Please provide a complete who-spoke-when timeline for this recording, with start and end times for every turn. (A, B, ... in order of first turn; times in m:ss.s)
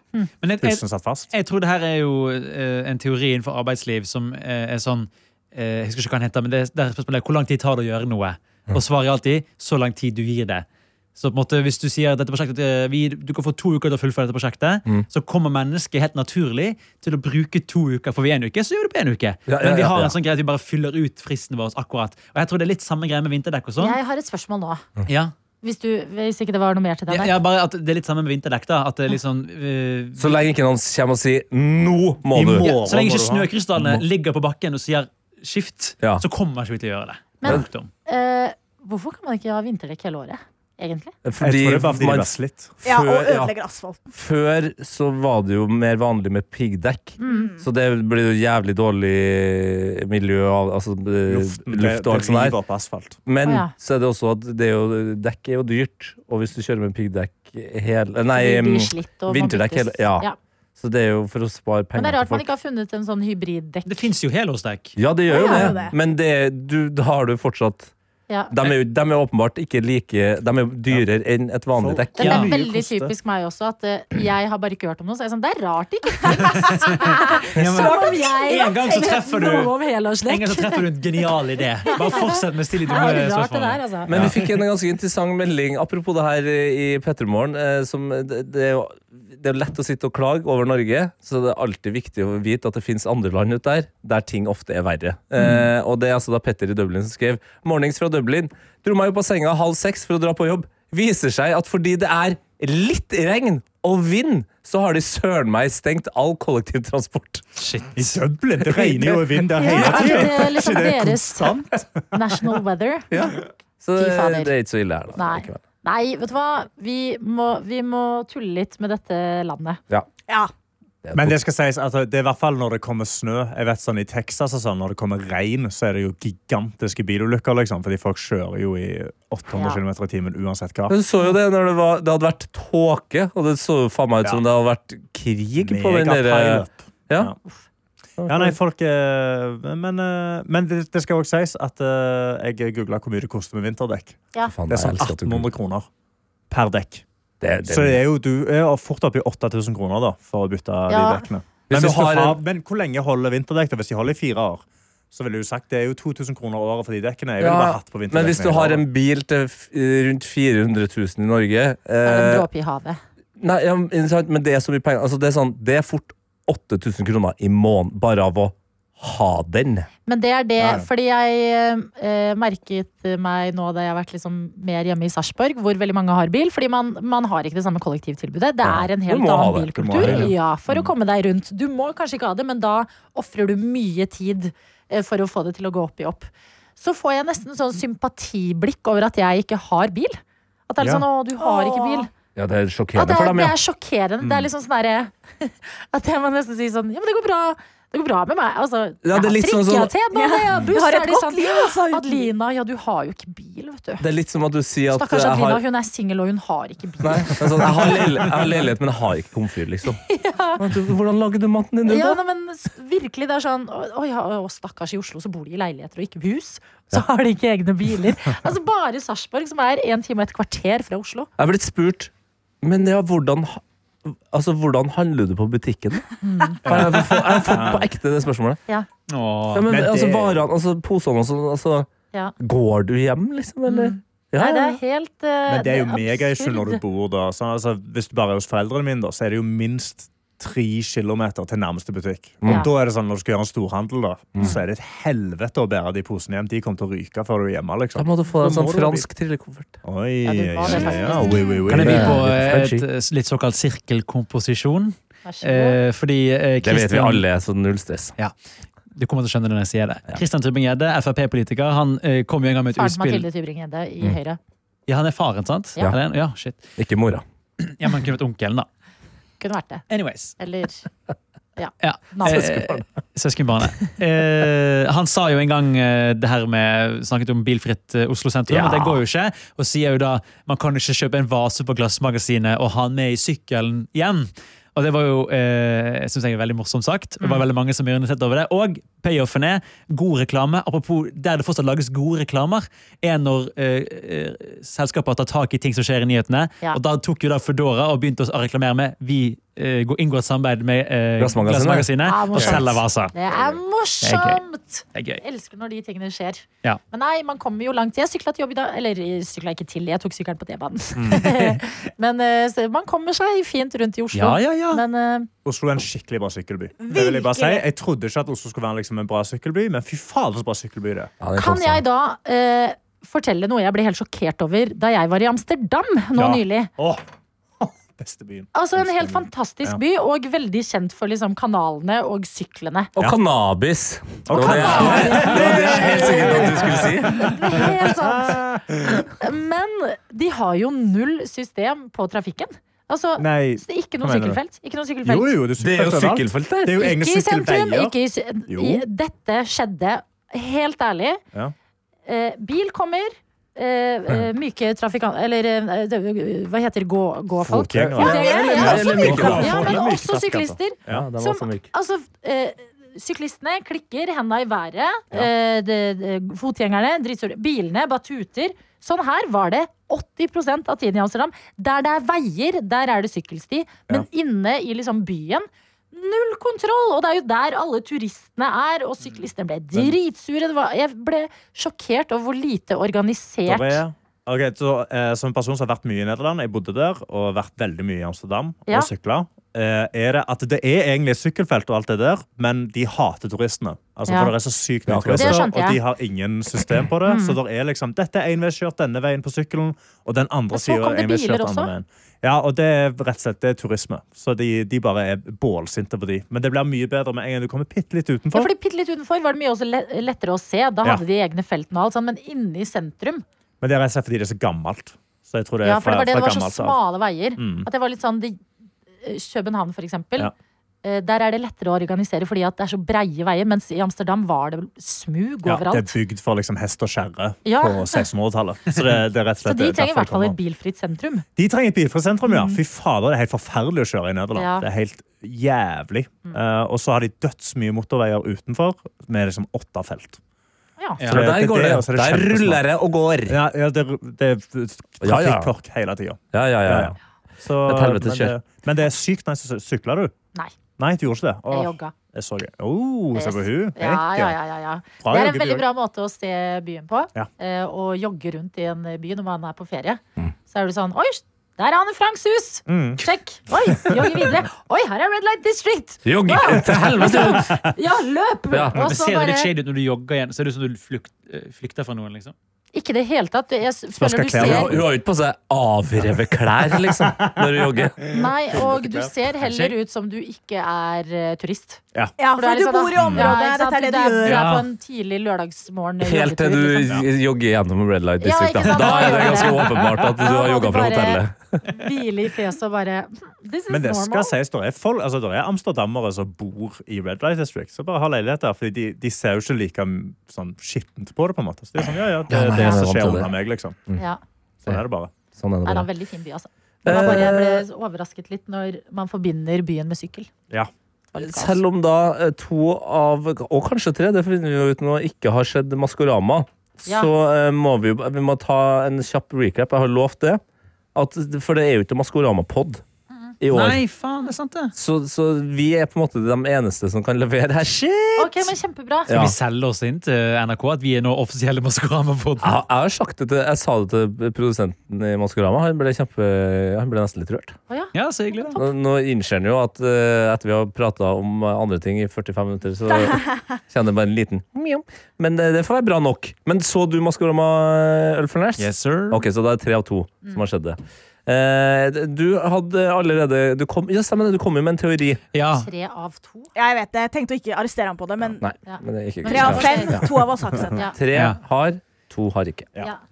0:00.4-0:24.0 A
0:00.6-0:01.3 B
0:19.5-0:20.1 C
0:23.8-0:24.8 D
0:25.1-0:25.3 A
0:25.6-0:27.4 D
0:27.1-0:30.4 A
0:30.2-0:32.7 C
0:32.3-0:33.6 B
0:32.6-0:37.9 A
0:37.4-0:41.1 D
0:41.2-0:43.5 C
0:41.4-0:42.8 B
0:42.8-0:44.1 E
0:44.1-0:52.6 C
0:47.2-0:47.5 D
0:47.2-0:47.6 E
0:51.3-0:53.2 B
0:53.2-1:02.4 C
0:53.4-0:53.7 D
0:58.3-1:00.4 D
1:02.0-1:04.0 D
1:03.8-1:05.0 A
1:05.0-1:07.9 C
1:05.3-1:06.0 E
1:05.3-1:05.7 D
1:08.5-1:12.5 C
1:11.7-1:13.2 B
1:12.2-1:12.4 A
1:12.2-1:20.9 D
1:16.5-1:19.7 A
1:17.8-1:19.2 E
1:20.2-1:24.5 A
1:21.8-1:24.2 D
1:24.1-1:47.4 C
1:35.4-1:35.7 B
1:47.6-1:48.1 A
1:47.9-1:52.1 B
1:48.6-1:50.5 C
1:49.5-1:53.1 D
1:53.1-1:55.6 C
1:54.0-1:54.5 D
1:55.1-1:59.8 D
2:01.0-2:01.4 C
2:01.1-2:11.0 B
2:09.5-2:09.8 D
2:10.9-2:17.3 C
2:15.6-2:17.4 B
2:18.2-2:18.6 C
2:18.2-2:25.9 B
2:24.5-2:25.5 C
2:26.5-2:27.0 B
2:27.4-2:28.0 C
2:27.6-2:38.8 B
2:30.9-2:31.2 D
2:31.7-2:32.4 C
2:37.4-2:42.5 C
2:42.0-2:43.0 D
2:43.4-2:49.9 C
2:50.1-3:12.1 D
2:50.6-2:50.8 B
2:58.6-3:00.8 C
2:59.8-3:00.3 B
3:10.8-3:11.0 B
3:11.4-3:12.1 E
3:12.3-3:13.6 C
3:12.9-3:24.0 D
3:14.2-3:14.5 B
3:19.0-3:20.0 C
3:20.1-3:22.3 E
3:24.0-3:25.6 C
3:24.9-3:28.0 D
3:27.0-3:30.0 C
3:30.1-3:30.6 D
3:30.6-3:32.2 C
3:31.8-3:41.3 D
3:41.4-3:42.1 C
3:42.6-3:46.1 C
3:46.2-3:46.6 D
3:46.6-3:48.6 C
3:46.6-3:47.9 B
3:49.1-3:49.8 A
3:49.5-3:51.9 C
3:49.7-3:50.4 B
3:52.4-3:54.8 C
3:53.6-3:56.8 D
3:55.5-4:09.1 B
4:02.4-4:02.7 C
4:08.0-4:09.8 C
4:09.8-4:12.2 B
4:10.2-4:11.6 D
4:11.7-4:17.2 A
4:11.7-4:12.8 C
4:15.2-4:15.8 D
4:16.6-4:18.1 C
4:18.9-4:23.2 A
4:22.7-4:24.4 D
4:24.9-4:26.6 A
4:26.8-4:27.2 C
4:27.6-4:28.7 A
4:29.4-4:29.8 D
4:29.9-4:30.3 A
4:30.4-4:30.8 D
4:31.6-4:32.6 D
4:31.8-5:03.1 A
4:32.2-4:32.8 C
4:38.5-4:39.0 C
5:01.2-5:01.9 C
5:02.0-5:15.3 D
5:02.4-5:02.6 B
5:04.0-5:04.4 A
5:04.9-5:05.2 A
5:11.0-5:11.2 B
5:11.0-5:11.6 A
5:14.1-5:14.8 A
5:15.4-5:21.1 B
5:16.8-5:17.6 E
5:21.2-5:21.8 C
5:21.4-5:26.7 D
5:26.2-5:27.0 B
5:27.6-5:29.8 B
5:28.5-5:32.9 D
5:33.0-5:37.6 C
5:34.3-5:39.1 B
5:34.3-5:38.4 D
5:39.1-5:45.4 D
5:43.2-5:44.4 B
5:45.0-5:47.9 B
5:45.6-5:46.8 C
5:46.8-5:51.2 D
5:48.5-5:48.8 B
5:52.0-6:23.8 D
5:57.4-6:01.1 B
5:57.7-5:59.8 C
6:00.9-6:01.7 C
6:23.4-6:48.5 B
6:34.1-6:34.3 D
6:34.9-6:35.5 C
6:35.2-6:35.8 D
6:37.0-6:37.4 D
6:40.5-6:41.7 D
6:48.3-6:53.2 D
6:53.6-6:56.8 B
6:55.6-6:58.4 D
6:57.4-6:57.7 B
6:59.0-7:00.3 D
7:00.8-7:06.0 D
7:05.4-7:10.4 B
7:07.4-7:08.0 D
7:09.4-7:11.2 D
7:11.4-7:20.2 B
7:12.2-7:12.6 D
7:14.3-7:14.7 D
7:21.0-7:21.3 A
7:21.1-7:22.6 B
7:21.1-7:23.4 C
7:23.2-7:30.1 B
7:25.0-7:25.5 C
7:26.3-7:27.0 C
7:27.6-7:28.3 C
7:30.8-7:34.4 B
7:31.5-7:31.9 D
7:33.1-7:49.5 D
7:35.0-7:35.6 B
7:42.7-7:43.0 B
7:43.6-7:44.4 B
7:46.0-7:47.6 C
7:47.1-7:47.4 B
7:48.5-7:48.8 C
7:48.8-7:52.3 A
7:52.7-7:54.7 D
7:54.0-7:54.9 B
7:54.4-7:58.0 C
7:56.0-7:59.1 B
7:58.1-8:01.8 D
7:59.4-7:59.8 A
8:02.2-8:04.5 E
8:02.3-8:06.9 D
8:03.0-8:03.3 B
8:04.2-8:04.7 A
8:06.0-8:11.6 C
8:08.2-8:14.3 D
8:08.7-8:10.1 A
8:13.7-8:23.8 B
8:22.3-8:23.3 C
8:22.5-8:22.9 D
8:24.6-8:25.1 B
8:25.3-8:25.9 C
8:25.6-8:30.3 D
8:26.8-8:27.6 C
8:26.9-8:27.3 B
8:31.1-8:31.6 D
8:31.2-8:40.4 C
8:40.9-8:42.8 C
8:43.4-8:43.8 C
8:43.5-8:44.7 A
8:44.8-8:48.5 C
8:48.2-8:49.1 D
8:49.1-8:49.4 C
8:49.1-8:52.6 A
8:52.4-8:57.6 C
8:57.7-8:58.7 D
8:57.9-8:58.6 A
8:58.5-9:15.2 C
9:02.9-9:03.6 E
9:08.6-9:09.2 A
9:15.3-9:15.7 A
9:15.5-9:16.5 D
9:16.5-9:18.4 E
9:18.4-9:20.1 C
9:18.6-9:20.0 D
9:19.2-9:20.9 E
9:20.9-9:22.7 C
9:21.1-9:21.4 A